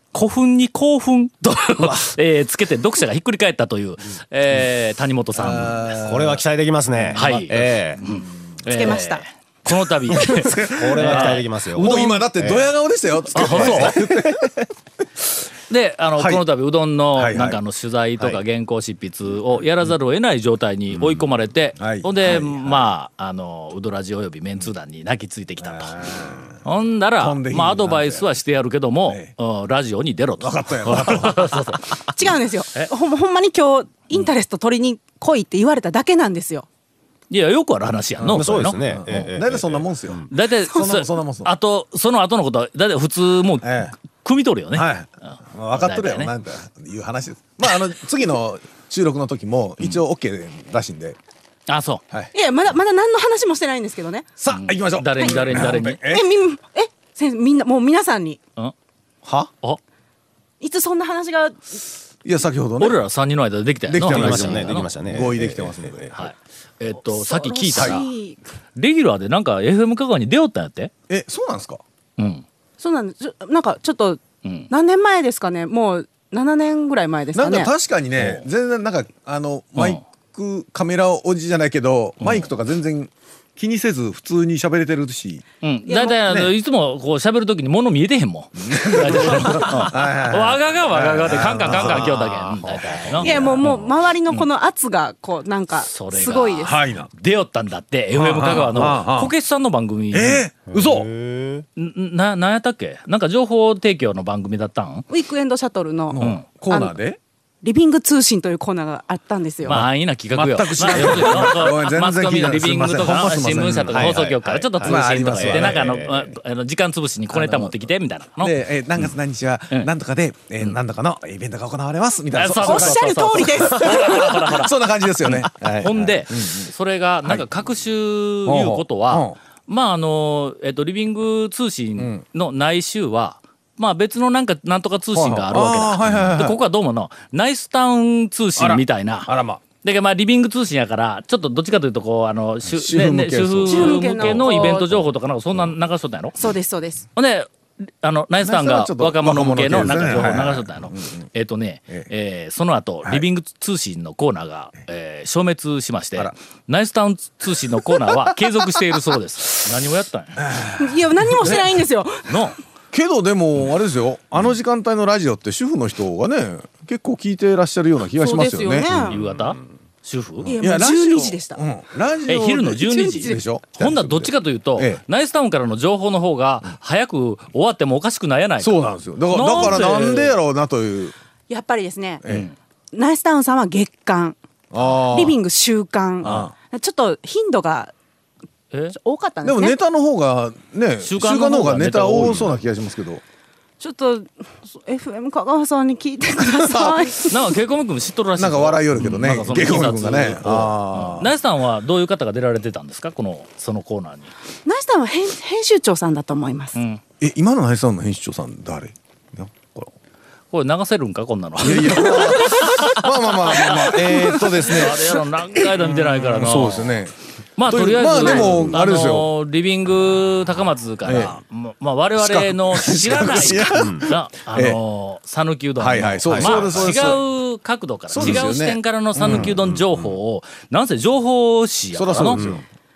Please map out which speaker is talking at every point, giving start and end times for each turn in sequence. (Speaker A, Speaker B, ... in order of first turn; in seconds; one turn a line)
Speaker A: 0.1-5.8
Speaker B: 5.3-6.4
Speaker C: 5.4-8.0
Speaker B: 7.0-8.2
Speaker A: 7.1-12.1
Speaker D: 8.7-9.2
Speaker B: 10.1-14.5
Speaker C: 10.6-12.7
Speaker A: 13.3-14.0
Speaker C: 13.4-14.5
Speaker A: 15.7-26.1
Speaker B: 16.2-16.4
Speaker B: 17.1-17.6
Speaker B: 21.8-22.9
Speaker B: 25.6-26.6
Speaker A: 26.6-32.0
Speaker B: 27.2-28.3
Speaker B: 29.1-29.3
Speaker B: 30.4-31.8
Speaker D: 32.1-36.6
Speaker A: 37.3-38.8
Speaker B: 38.2-41.5
Speaker C: 38.3-40.3
Speaker A: 40.3-46.3
Speaker B: 43.6-43.9
Speaker B: 44.7-51.2
Speaker A: 51.7-52.0
Speaker D: 52.3-54.3
Speaker B: 54.4-56.3
Speaker A: 54.5-56.0
Speaker D: 55.2-58.4
Speaker B: 59.2-59.5
Speaker D: 60.6-61.7
Speaker B: 62.2-63.0
Speaker A: 62.8-64.9
Speaker B: 63.9-66.3
Speaker C: 64.1-66.1
Speaker A: 66.1-68.0
Speaker D: 67.1-68.4
Speaker B: 67.7-68.0
Speaker A: 68.8-70.9
Speaker B: 71.1-71.8
Speaker A: 72.2-72.4
Speaker D: 72.8-77.7
Speaker A: 74.4-74.7
Speaker B: 77.3-85.4
Speaker A: 78.2-78.5
Speaker A: 79.8-80.0
Speaker A: 82.2-82.5
Speaker A: 85.6-94.5
Speaker D: 85.9-86.2
Speaker B: 86.2-86.5
Speaker B: 88.6-92.1
Speaker C: 91.6-93.8
Speaker D: 93.2-96.8
Speaker A: 95.8-100.4
Speaker B: 96.6-97.1
Speaker B: 98.1-99.3
Speaker B: 100.1-101.1
Speaker C: 100.7-101.7
Speaker A: 101.8-105.0
Speaker D: 105.1-106.9
Speaker B: 106.1-107.2
Speaker A: 106.2-106.4
Speaker D: 107.6-109.8
Speaker B: 109.7-116.0
Speaker A: 109.7-118.6
Speaker C: 110.9-111.4
Speaker C: 113.6-116.3
Speaker B: 117.3-117.9
Speaker B: 118.4-126.7
Speaker A: 122.3-139.3
Speaker D: 122.6-124.4
Speaker B: 128.4-129.3
Speaker B: 132.0-132.2
Speaker B: 135.1-136.6
Speaker B: 138.6-139.6
Speaker A: 139.8-146.4
Speaker B: 142.6-144.8
Speaker D: 143.7-145.0
Speaker D: 146.4-147.1
Speaker A: 147.2-147.5
Speaker A: 148.0-160.4
Speaker B: 148.4-151.3
Speaker B: 157.9-158.4
Speaker B: 160.4-161.8
Speaker D: 160.8-162.4
Speaker A: 162.3-162.6
Speaker B: 162.9-168.9
Speaker D: 168.2-169.2
Speaker C: 168.9-169.5
Speaker A: 169.1-170.5
Speaker B: 170.4-175.0
Speaker D: 170.5-171.6
Speaker A: 172.3-180.4
Speaker D: 172.8-173.4
Speaker B: 178.6-181.2
Speaker D: 181.5-182.2
Speaker B: 182.2-182.5
Speaker A: 182.3-182.5
Speaker D: 182.9-184.4
Speaker B: 184.7-185.4
Speaker D: 185.1-187.9
Speaker B: 186.2-186.5
Speaker D: 188.9-189.8
Speaker B: 189.4-193.2
Speaker A: 191.0-192.6
Speaker D: 193.8-197.3
Speaker B: 196.4-197.1
Speaker A: 197.3-204.3
Speaker B: 198.4-201.3
Speaker D: 204.6-206.8
Speaker A: 206.7-207.0
Speaker B: 207.2-209.9
Speaker A: 210.5-216.9
Speaker B: 211.6-217.1
Speaker A: 217.6-232.4
Speaker B: 217.7-219.3
Speaker C: 218.4-218.7
Speaker B: 221.0-221.3
Speaker B: 222.2-224.8
Speaker C: 223.7-224.1
Speaker B: 225.8-227.2
Speaker C: 226.2-227.2
Speaker B: 228.1-229.6
Speaker C: 229.2-230.2
Speaker B: 231.9-232.6
Speaker C: 232.2-232.6